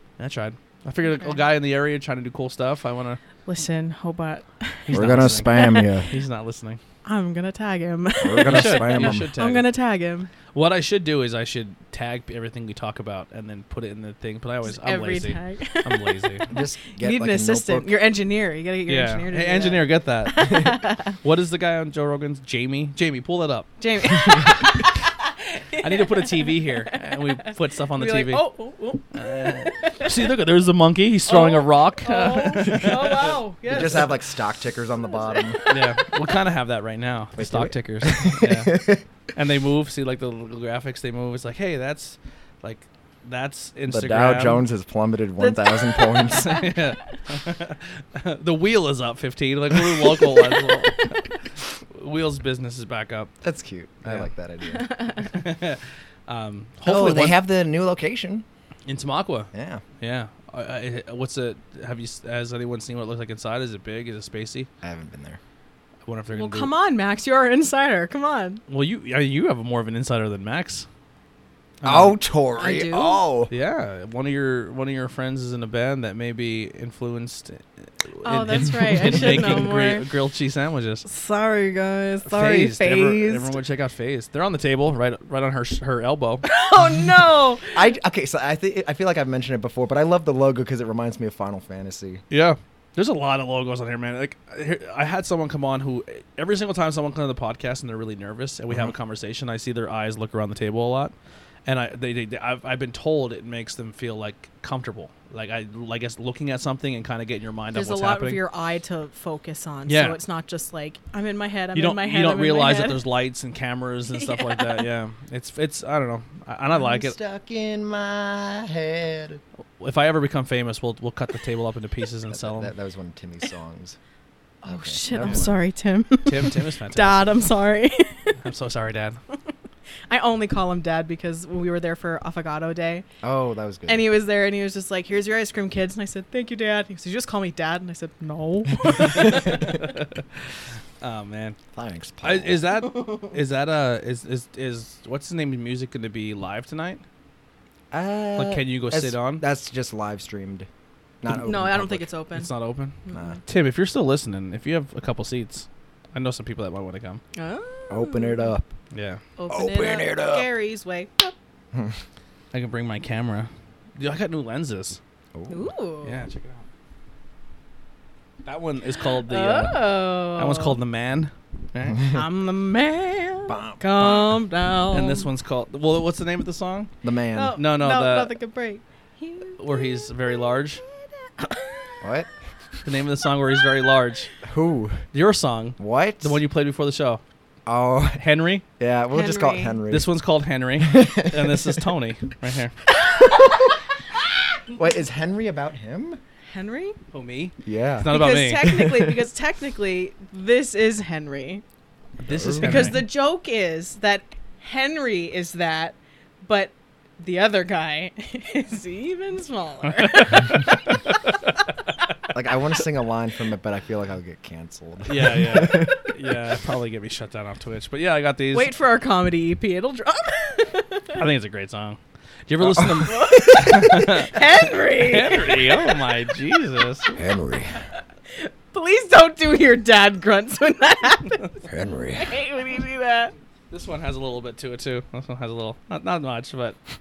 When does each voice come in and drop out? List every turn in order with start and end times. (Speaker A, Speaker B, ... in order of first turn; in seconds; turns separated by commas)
Speaker A: 0.2-3.2, Speaker B: 1.0-1.4, Speaker B: 3.5-5.8, Speaker A: 4.9-6.8, Speaker C: 4.9-6.1, Speaker B: 7.0-10.3, Speaker C: 8.2-9.3, Speaker A: 8.4-9.7, Speaker A: 10.5-16.5, Speaker B: 14.6-16.2, Speaker C: 16.5-17.9, Speaker B: 16.9-21.2, Speaker A: 18.9-24.3, Speaker B: 23.8-30.3, Speaker A: 25.8-28.5, Speaker A: 29.1-33.4, Speaker B: 31.3-34.2, Speaker C: 33.7-35.6, Speaker B: 35.0-36.1, Speaker A: 35.7-44.6, Speaker C: 37.4-39.0, Speaker C: 43.9-46.5, Speaker B: 45.4-46.7, Speaker A: 46.3-53.3, Speaker B: 50.2-51.1, Speaker C: 53.4-54.9, Speaker B: 54.7-55.3, Speaker A: 55.2-57.4, Speaker C: 56.8-58.4, Speaker A: 58.9-64.7, Speaker C: 59.5-59.8, Speaker C: 64.8-65.4, Speaker A: 66.0-66.7, Speaker B: 66.3-68.6, Speaker A: 68.7-70.8, Speaker A: 71.8-72.2, Speaker C: 71.8-73.5, Speaker B: 72.6-73.2, Speaker A: 73.5-81.0, Speaker B: 78.2-80.1, Speaker B: 81.0-83.5, Speaker A: 82.2-86.4, Speaker B: 86.5-87.9, Speaker C: 87.7-92.2, Speaker A: 92.3-101.1, Speaker A: 101.7-108.4, Speaker B: 107.7-113.0, Speaker A: 109.9-110.2, Speaker A: 111.7-117.2, Speaker B: 114.1-114.9, Speaker C: 116.7-119.4, Speaker A: 119.8-122.7, Speaker C: 122.3-124.0, Speaker B: 124.6-128.3, Speaker C: 124.6-125.5, Speaker A: 126.2-127.4, Speaker A: 128.4-129.2, Speaker B: 130.1-133.1, Speaker C: 133.2-134.0, Speaker B: 133.9-139.9, Speaker A: 139.2-140.2, Speaker A: 141.0-141.6, Speaker C: 141.7-142.7, Speaker A: 142.2-147.0, Speaker C: 147.9-150.7, Speaker A: 148.3-149.4, Speaker C: 151.2-152.1, Speaker B: 151.3-152.5, Speaker A: 152.3-157.2, Speaker B: 153.1-153.4, Speaker C: 153.1-153.4, Speaker B: 157.3-158.5, Speaker C: 157.9-158.7, Speaker A: 158.9-159.2, Speaker B: 159.4-161.3, Speaker C: 159.5-160.5, Speaker C: 161.7-162.0, Speaker A: 162.5-165.0, Speaker C: 165.3-165.7, Speaker B: 165.5-166.2, Speaker A: 166.0-166.7, Speaker A: 168.4-172.2, Speaker B: 169.2-170.8, Speaker B: 172.1-175.3, Speaker C: 173.5-174.3, Speaker A: 174.9-176.9, Speaker C: 177.0-177.6, Speaker B: 177.3-180.6, Speaker A: 177.6-178.3, Speaker A: 179.6-180.8, Speaker B: 181.4-182.0, Speaker C: 182.0-182.3, Speaker A: 182.8-184.3, Speaker C: 184.4-185.0, Speaker A: 185.1-187.2, Speaker C: 185.8-186.4, Speaker C: 187.7-188.2, Speaker A: 188.2-188.6, Speaker C: 188.8-190.1, Speaker B: 189.1-189.8, Speaker A: 189.9-192.8, Speaker C: 190.8-191.8, Speaker B: 193.1-193.6, Speaker C: 194.7-196.2, Speaker B: 196.5-197.0, Speaker A: 197.1-198.7, Speaker C: 197.6-199.2, Speaker B: 198.1-201.6, Speaker A: 202.2-203.0, Speaker C: 202.3-203.0, Speaker B: 202.6-210.7, Speaker A: 210.0-211.5, Speaker C: 212.3-216.0, Speaker A: 215.1-218.7, Speaker B: 218.5-221.2, Speaker A: 221.1-227.1, Speaker C: 222.6-223.8, Speaker B: 223.0-226.1, Speaker C: 227.2-227.8, Speaker B: 228.3-233.3, Speaker C: 231.7-232.3, Speaker A: 233.7-236.8